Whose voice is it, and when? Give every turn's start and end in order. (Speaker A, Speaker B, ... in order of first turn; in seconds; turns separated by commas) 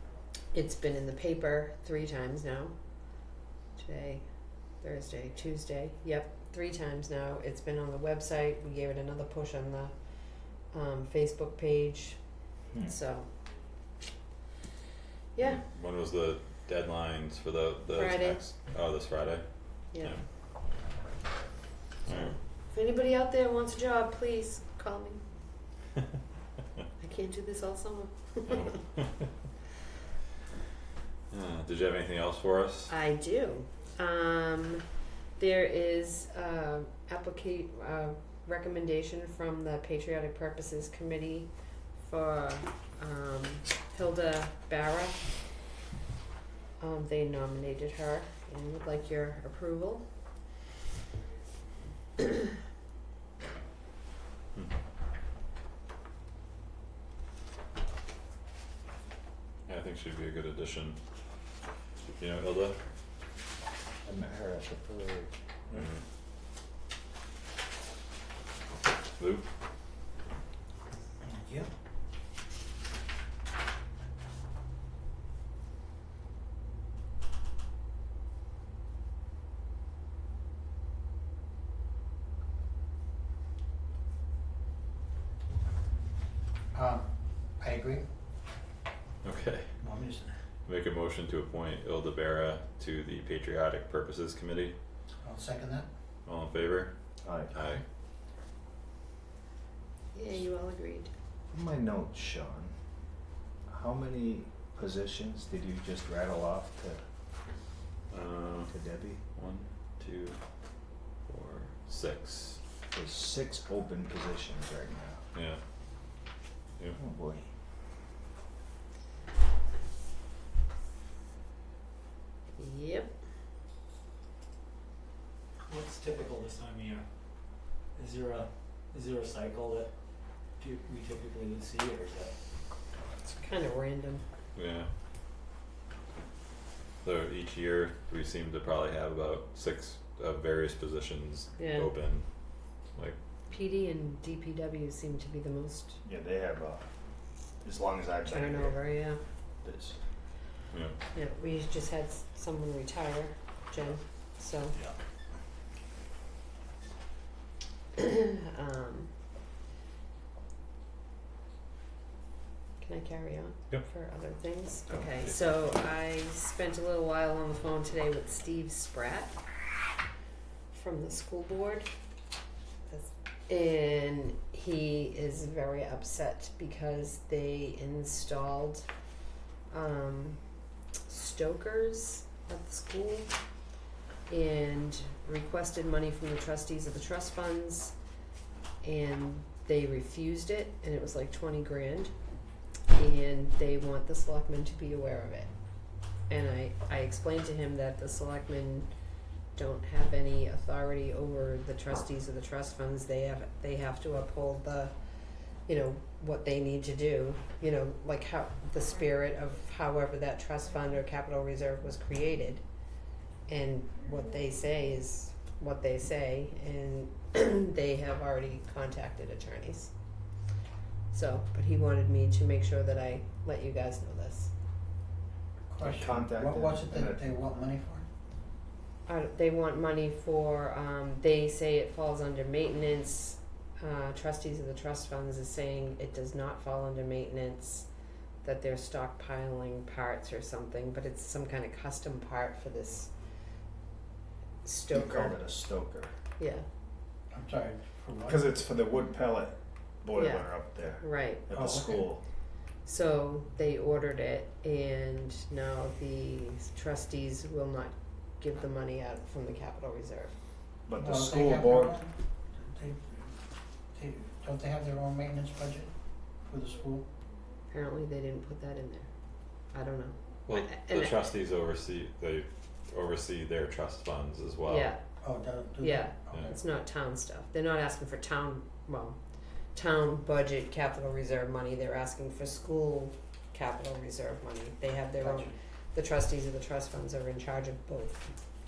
Speaker A: 0.5-2.7, Speaker A: 3.8-4.2, Speaker A: 4.8-9.9, Speaker A: 10.7-12.2, Speaker A: 12.8-13.3, Speaker A: 15.3-15.6, Speaker B: 15.4-20.2, Speaker A: 17.9-18.4, Speaker A: 19.9-20.2, Speaker B: 22.1-22.4, Speaker A: 22.7-25.2, Speaker A: 27.0-28.8, Speaker B: 28.5-29.1, Speaker B: 31.3-32.9, Speaker A: 32.9-34.9, Speaker A: 35.4-45.3, Speaker A: 46.8-50.0, Speaker B: 59.7-61.0, Speaker B: 62.2-62.8, Speaker C: 64.0-65.3, Speaker B: 65.7-66.0, Speaker B: 69.2-69.5, Speaker D: 71.2-71.7, Speaker D: 86.7-88.0, Speaker B: 89.2-89.7, Speaker D: 89.8-90.3, Speaker B: 90.7-94.7, Speaker D: 95.2-95.9, Speaker B: 96.2-96.9, Speaker C: 97.2-97.5, Speaker B: 97.5-97.8, Speaker A: 100.1-101.1, Speaker C: 101.5-102.7, Speaker C: 103.7-107.0, Speaker B: 108.1-108.7, Speaker C: 108.7-109.2, Speaker B: 109.3-110.4, Speaker B: 111.3-112.6, Speaker C: 112.9-115.2, Speaker B: 115.3-115.6, Speaker C: 116.9-117.5, Speaker A: 122.6-123.1, Speaker E: 125.7-127.1, Speaker E: 127.9-129.9, Speaker E: 130.6-132.3, Speaker A: 133.4-134.2, Speaker B: 134.5-134.9, Speaker B: 137.0-142.2, Speaker A: 141.6-141.9, Speaker A: 143.5-146.0, Speaker C: 146.0-146.8, Speaker C: 147.6-148.8, Speaker A: 148.3-149.2, Speaker C: 149.6-150.0, Speaker A: 151.1-154.7, Speaker A: 158.0-159.1, Speaker A: 162.8-169.4, Speaker B: 164.9-165.6, Speaker A: 170.7-171.9, Speaker A: 172.9-178.8, Speaker A: 179.7-180.4, Speaker A: 181.1-183.3, Speaker A: 184.3-187.9, Speaker A: 188.8-192.1, Speaker A: 192.9-195.5, Speaker A: 196.3-198.9, Speaker A: 199.5-204.9, Speaker A: 205.7-212.6, Speaker A: 213.5-219.9, Speaker A: 221.1-224.5, Speaker D: 225.7-228.1, Speaker C: 225.8-227.4, Speaker A: 229.1-237.9, Speaker A: 238.4-243.1, Speaker A: 244.6-245.4, Speaker C: 244.9-246.1, Speaker A: 246.4-246.6, Speaker D: 247.3-248.4, Speaker C: 248.2-252.2, Speaker A: 250.1-251.5, Speaker D: 251.5-252.0, Speaker A: 252.8-260.3, Speaker C: 260.9-262.0, Speaker D: 261.0-262.1, Speaker D: 262.6-263.2, Speaker D: 263.9-265.9, Speaker D: 266.5-267.1, Speaker A: 267.7-269.1, Speaker A: 269.7-271.2, Speaker B: 270.5-274.9, Speaker A: 274.7-275.0, Speaker D: 275.2-276.6, Speaker A: 275.8-279.2, Speaker A: 279.7-288.3, Speaker D: 285.2-285.5